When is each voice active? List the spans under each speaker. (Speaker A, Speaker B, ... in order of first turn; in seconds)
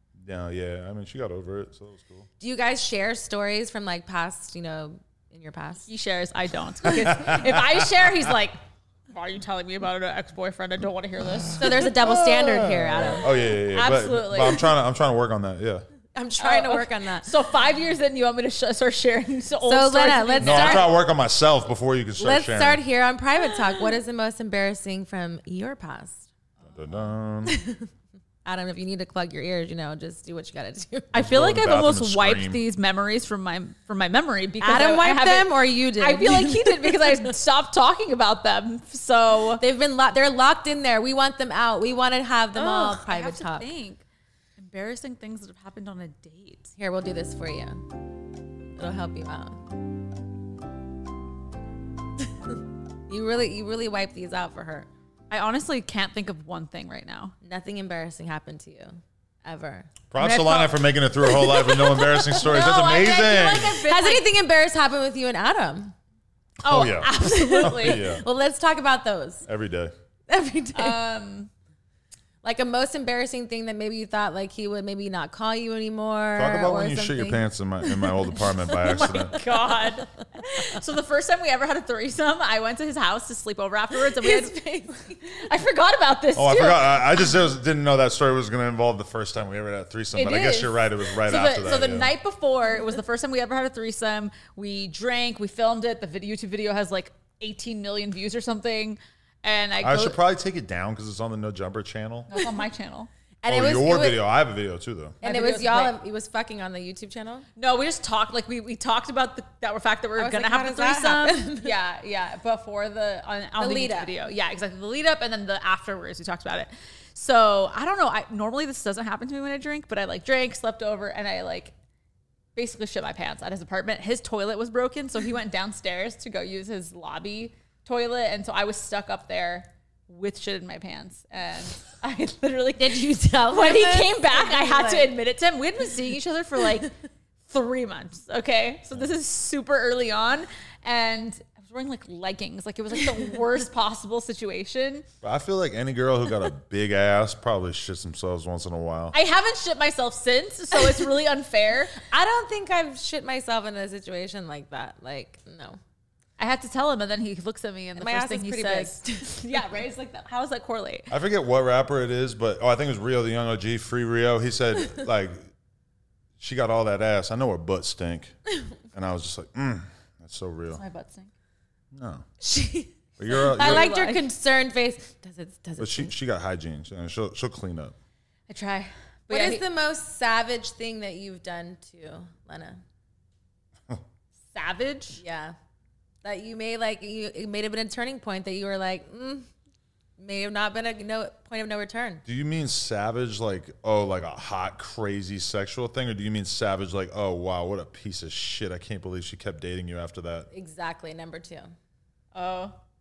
Speaker A: 0.2-2.3, 6.9-8.1, 11.5-15.8, 20.4-22.8, 26.7-27.6, 31.2-32.6, 60.1-63.8, 66.6-68.2, 69.5-69.9, 76.4-79.4, 86.4-92.1, 99.8-102.3, 103.5-105.2, 145.2-149.2, 161.1-165.5, 166.4-168.4, 168.9-170.8, 171.9-172.3, 173.2-173.9, 175.8-177.9, 192.3-200.5
Speaker B: 2.4-5.9, 11.6-13.2, 16.1-17.3, 19.7-20.9, 22.2-26.3, 27.5-27.9, 28.4-31.2, 34.6-37.0, 39.6-43.7, 46.8-47.8, 48.8-49.6, 52.5-54.9, 57.4-59.9, 63.6-66.0, 67.2-69.5, 70.3-71.0, 72.4-78.3, 84.1-85.2, 103.4-104.2, 105.2-107.5, 110.2-111.7, 113.6-114.1, 132.8-135.1, 152.0-155.8, 158.0-159.4, 172.4-176.1, 179.3-182.8, 185.2-185.6, 186.2-189.5, 190.2-192.2, 200.5-201.7
Speaker C: 5.9-12.2, 13.7-14.7, 16.4-20.9, 31.1-39.6, 42.5-44.0, 44.6-46.7, 55.3-57.3, 60.2-64.3, 66.6-68.1, 70.8-71.5, 78.7-87.1, 90.1-100.2, 102.3-103.1, 105.2-106.0, 107.6-121.7, 122.5-145.1, 149.1-152.0, 156.4-161.1, 170.7-171.3, 173.3-174.3, 178.5-179.6, 184.5-185.2, 202.3-202.8